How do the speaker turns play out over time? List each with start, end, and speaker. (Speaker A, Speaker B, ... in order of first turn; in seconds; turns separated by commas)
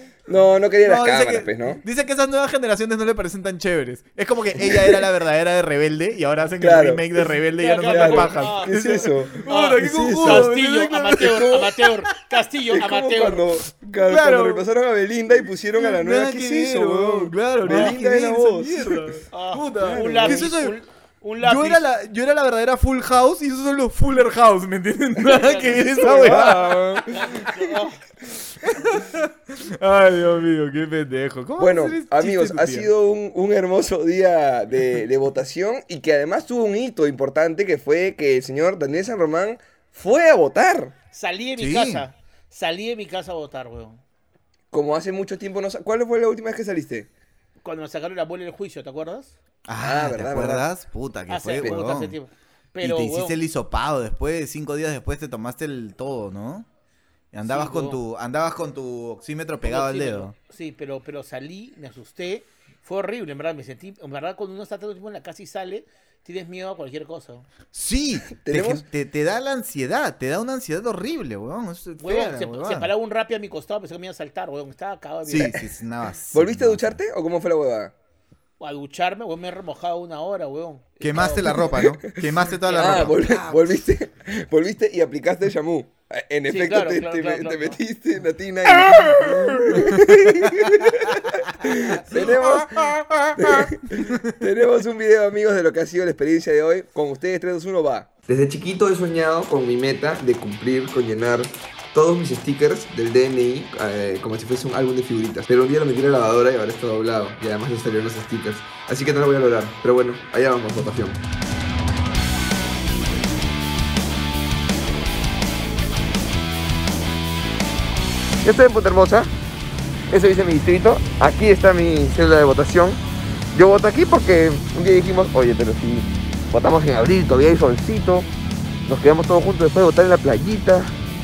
Speaker A: 0.3-1.8, Speaker B: 0.8-11.9, Speaker A: 4.7-5.0, Speaker A: 6.6-7.3, Speaker C: 7.6-8.8, Speaker A: 7.8-10.5, Speaker C: 9.4-13.4, Speaker A: 11.2-11.6, Speaker A: 12.7-19.2, Speaker B: 14.1-14.7, Speaker B: 15.7-20.7, Speaker C: 17.7-17.9, Speaker C: 19.3-21.8, Speaker A: 19.7-20.4, Speaker B: 21.4-27.0, Speaker C: 25.3-28.0, Speaker A: 26.0-27.4, Speaker B: 28.6-32.9, Speaker A: 31.6-40.9, Speaker C: 41.1-44.0, Speaker B: 41.6-42.0, Speaker A: 44.7-47.1, Speaker C: 47.6-49.3, Speaker B: 49.7-52.1, Speaker A: 49.8-50.7, Speaker C: 51.3-53.4, Speaker B: 52.8-56.7, Speaker B: 57.3-60.3, Speaker C: 57.4-58.0, Speaker C: 59.6-67.5, Speaker B: 67.7-72.9, Speaker A: 68.4-68.8, Speaker C: 72.0-75.6, Speaker B: 75.2-77.0, Speaker A: 76.3-77.9, Speaker C: 78.6-81.8, Speaker B: 81.0-83.6, Speaker C: 82.6-83.1, Speaker A: 82.7-111.2, Speaker C: 86.5-87.8, Speaker B: 88.9-91.2, Speaker B: 91.7-94.3, Speaker A: 118.4-119.3, Speaker A: 120.1-123.0, Speaker A: 123.5-128.3, Speaker A: 128.8-130.9